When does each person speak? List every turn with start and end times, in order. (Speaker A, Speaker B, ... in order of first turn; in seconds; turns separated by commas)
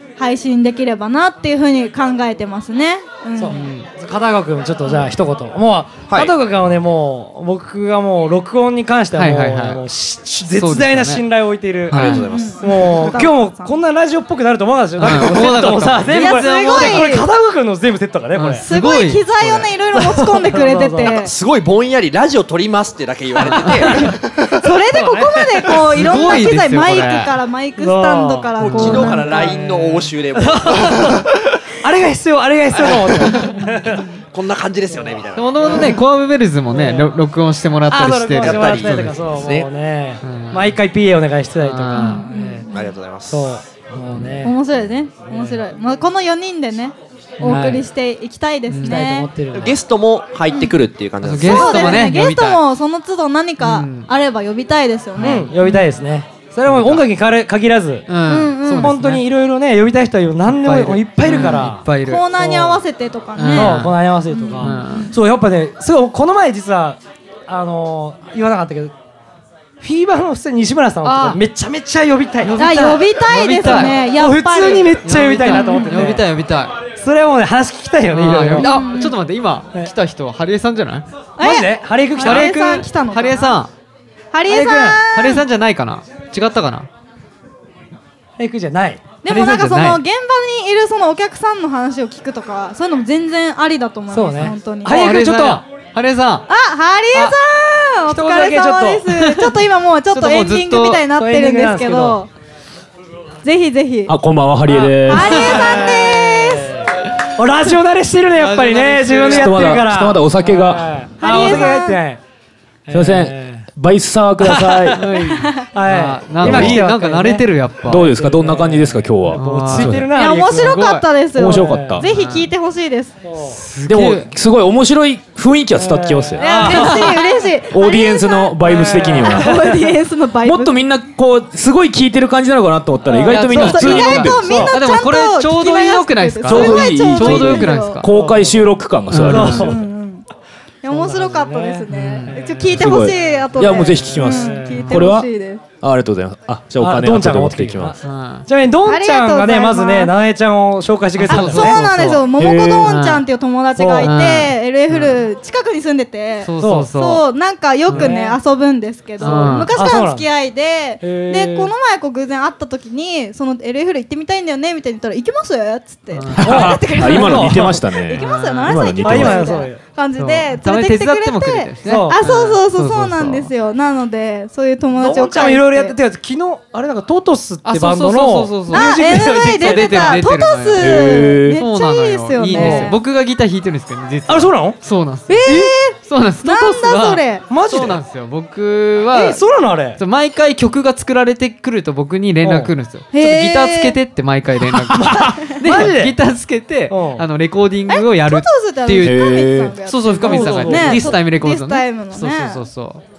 Speaker A: 0.2-3.6, Speaker B: 3.4-18.7, Speaker C: 3.5-3.9, Speaker D: 6.1-6.3, Speaker C: 9.2-9.8, Speaker C: 10.5-11.2, Speaker C: 11.9-12.3, Speaker D: 11.9-13.2, Speaker A: 12.0-13.8, Speaker C: 15.0-17.2, Speaker A: 16.1-17.3, Speaker C: 18.4-19.7, Speaker A: 18.6-21.3, Speaker B: 19.9-21.2, Speaker D: 21.1-24.4, Speaker B: 23.4-24.1, Speaker C: 23.5-24.0, Speaker A: 24.6-29.4, Speaker B: 24.8-25.7, Speaker C: 25.7-27.3, Speaker B: 27.8-29.6, Speaker D: 28.6-31.3, Speaker C: 28.6-30.1, Speaker B: 30.4-31.3, Speaker B: 31.8-34.0, Speaker A: 33.5-34.0, Speaker D: 34.3-35.8, Speaker B: 34.9-36.0, Speaker C: 35.4-39.3, Speaker B: 36.7-37.1, Speaker B: 37.9-42.7, Speaker D: 38.4-39.7, Speaker C: 40.2-40.8, Speaker C: 41.6-42.3, Speaker A: 41.9-42.9, Speaker D: 42.7-43.5, Speaker B: 43.3-44.6, Speaker C: 44.1-44.5, Speaker A: 44.4-49.3, Speaker B: 45.3-45.6, Speaker C: 47.4-47.8, Speaker B: 47.4-47.9, Speaker C: 48.7-49.0, Speaker B: 48.9-49.8, Speaker D: 49.5-52.1, Speaker C: 51.2-52.6, Speaker A: 51.4-55.8, Speaker C: 53.6-54.1, Speaker B: 55.2-58.1, Speaker C: 55.2-55.9, Speaker C: 56.6-57.1, Speaker C: 58.1-59.2, Speaker A: 58.3-59.0, Speaker B: 58.8-62.8, Speaker C: 60.5-62.2, Speaker A: 62.0-65.1, Speaker C: 63.4-64.0, Speaker B: 63.5-68.9, Speaker C: 64.6-65.1, Speaker B: 69.8-73.0, Speaker C: 71.0-71.4, Speaker C: 72.4-74.0, Speaker A: 72.6-76.2, Speaker B: 73.6-76.2, Speaker C: 75.0-76.8, Speaker B: 77.0-78.8, Speaker C: 78.1-81.1, Speaker A: 78.6-79.2, Speaker A: 81.4-83.5, Speaker B: 81.4-82.8, Speaker C: 82.2-83.7, Speaker A: 84.3-85.5, Speaker B: 84.5-85.1, Speaker C: 85.1-86.9, Speaker B: 88.4-89.0, Speaker A: 89.2-95.1, Speaker C: 89.2-90.0, Speaker B: 94.1-95.6, Speaker C: 94.9-96.5, Speaker A: 96.5-102.3, Speaker B: 98.1-99.1, Speaker C: 99.1-101.0, Speaker B: 101.1-102.2, Speaker A: 103.4-104.1, Speaker E: 104.1-105.6, Speaker B: 104.7-112.2, Speaker A: 105.1-106.7, Speaker C: 105.5-105.9, Speaker C: 108.3-109.9, Speaker E: 109.2-110.9, Speaker A: 111.2-112.0, Speaker B: 112.9-113.7, Speaker E: 112.9-115.0, Speaker B: 114.4-115.0, Speaker C: 115.0-118.1, Speaker A: 115.2-115.7, Speaker B: 115.7-120.8, Speaker E: 116.4-116.8, Speaker E: 117.9-120.1, Speaker C: 119.3-121.1, Speaker A: 120.2-123.2, Speaker E: 121.4-122.0, Speaker B: 121.5-122.0, Speaker C: 122.0-122.5, Speaker B: 123.2-123.6, Speaker C: 123.4-124.3, Speaker E: 123.9-127.0, Speaker B: 125.8-127.2, Speaker A: 126.4-130.8, Speaker C: 126.6-127.0, Speaker E: 127.7-129.7, Speaker B: 128.6-129.9, Speaker E: 130.4-134.8, Speaker B: 133.1-134.7, Speaker C: 133.2-138.1, Speaker A: 133.6-138.1, Speaker E: 136.5-139.8, Speaker B: 138.1-139.8, Speaker C: 139.1-139.7, Speaker A: 139.3-140.3, Speaker A: 140.8-145.6, Speaker B: 140.9-143.0, Speaker C: 141.9-142.4, Speaker E: 142.8-145.3, Speaker B: 143.7-144.9, Speaker C: 144.7-145.0, Speaker E: 145.8-148.0, Speaker B: 146.8-151.8, Speaker C: 148.0-148.5, Speaker A: 148.9-150.1, Speaker C: 151.2-152.3, Speaker A: 151.2-175.9, Speaker E: 152.4-152.9, Speaker C: 152.8-153.2, Speaker B: 153.8-154.1, Speaker C: 154.0-155.3, Speaker C: 156.4-157.2, Speaker B: 156.6-156.9, Speaker C: 157.9-158.1, Speaker B: 157.9-158.4, Speaker C: 159.2-159.7, Speaker B: 159.2-160.3, Speaker B: 161.0-161.7, Speaker C: 166.1-166.6, Speaker E: 166.4-169.6, Speaker B: 166.4-167.8, Speaker C: 168.1-168.9, Speaker B: 169.1-169.8, Speaker C: 170.2-173.5, Speaker B: 171.8-172.2, Speaker B: 175.0-180.3, Speaker C: 177.7-199.2, Speaker A: 178.7-183.0, Speaker E: 180.8-181.6, Speaker B: 182.5-183.0, Speaker B: 184.3-184.8, Speaker A: 185.3-187.4, Speaker B: 187.5-188.0, Speaker B: 189.1-190.0, Speaker B: 192.4-192.7, Speaker A: 193.1-193.9, Speaker B: 194.9-196.2, Speaker A: 195.2-195.6, Speaker B: 196.9-197.2, Speaker A: 197.9-202.6, Speaker E: 199.0-199.8, Speaker C: 199.8-203.0, Speaker B: 200.2-201.2